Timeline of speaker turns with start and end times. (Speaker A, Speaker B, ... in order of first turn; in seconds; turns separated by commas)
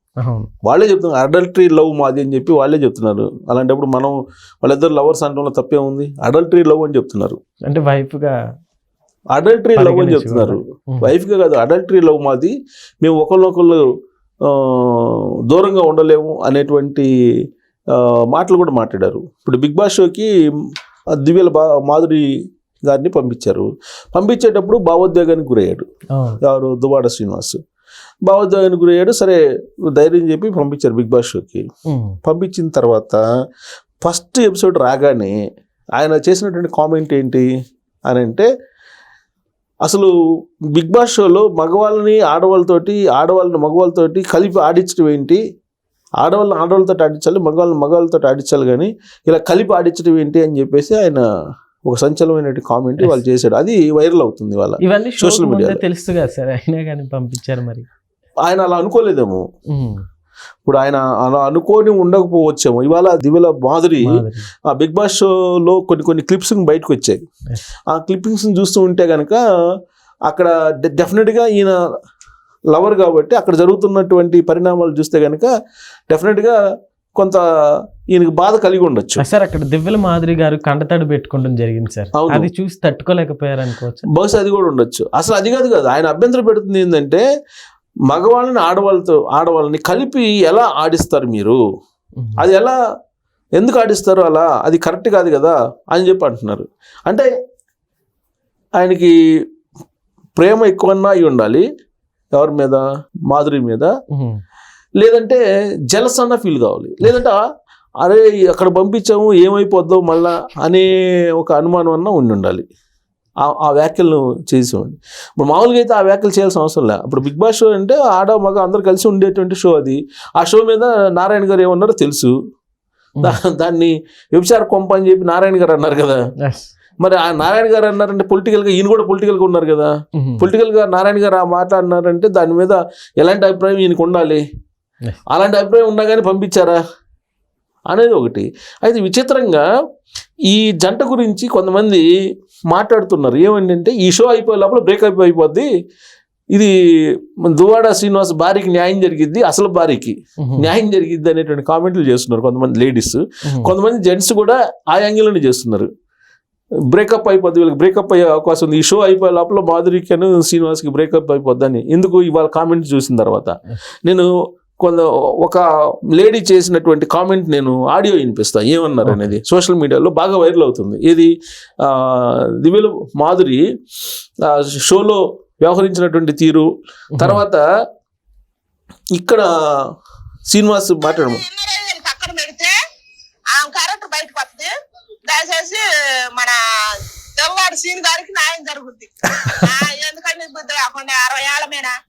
Speaker A: 0.2-0.5, Speaker B: 0.6-7.4, Speaker A: 7.7-8.4, Speaker B: 9.3-13.8, Speaker A: 9.8-11.1, Speaker B: 14.4-17.1, Speaker B: 17.9-20.3, Speaker B: 21.1-22.2, Speaker B: 22.9-25.8, Speaker A: 26.1-26.4, Speaker B: 26.4-27.6, Speaker B: 28.2-29.4, Speaker B: 29.9-31.6, Speaker A: 31.9-32.2, Speaker B: 32.2-33.2, Speaker B: 34.0-35.3, Speaker B: 36.0-37.5, Speaker B: 38.1-38.5, Speaker B: 39.8-40.1, Speaker B: 40.7-45.4, Speaker B: 46.2-51.2, Speaker B: 51.8-55.8, Speaker A: 54.8-57.8, Speaker B: 58.4-59.4, Speaker A: 59.7-60.0, Speaker B: 60.6-67.2, Speaker A: 64.0-64.5, Speaker B: 67.9-69.4, Speaker B: 70.3-71.8, Speaker B: 72.7-75.5, Speaker B: 76.1-76.5, Speaker B: 77.2-77.4, Speaker B: 78.1-79.2, Speaker A: 79.2-84.0, Speaker B: 82.1-82.5, Speaker B: 84.1-87.2, Speaker B: 88.1-91.6, Speaker B: 92.4-92.8, Speaker B: 93.5-97.3, Speaker B: 98.8-99.1, Speaker B: 100.4-101.6, Speaker B: 102.3-103.9, Speaker A: 104.1-104.4, Speaker B: 105.0-107.4, Speaker B: 108.0-112.6, Speaker B: 113.4-122.3, Speaker B: 123.2-126.2, Speaker A: 126.4-126.7, Speaker B: 127.0-134.4, Speaker A: 130.2-130.5, Speaker B: 135.3-136.8, Speaker B: 137.9-139.6, Speaker B: 140.5-142.1, Speaker B: 142.7-145.7, Speaker B: 147.4-155.9, Speaker A: 150.4-150.7, Speaker A: 153.5-153.7, Speaker B: 156.9-163.5, Speaker B: 164.8-165.6, Speaker B: 166.1-171.3, Speaker A: 169.0-169.3, Speaker B: 171.8-173.6, Speaker B: 174.4-177.6, Speaker A: 177.1-177.4, Speaker B: 179.1-179.5, Speaker B: 180.5-181.4, Speaker C: 181.0-182.7, Speaker C: 183.5-184.7, Speaker C: 185.3-185.8, Speaker C: 187.4-191.9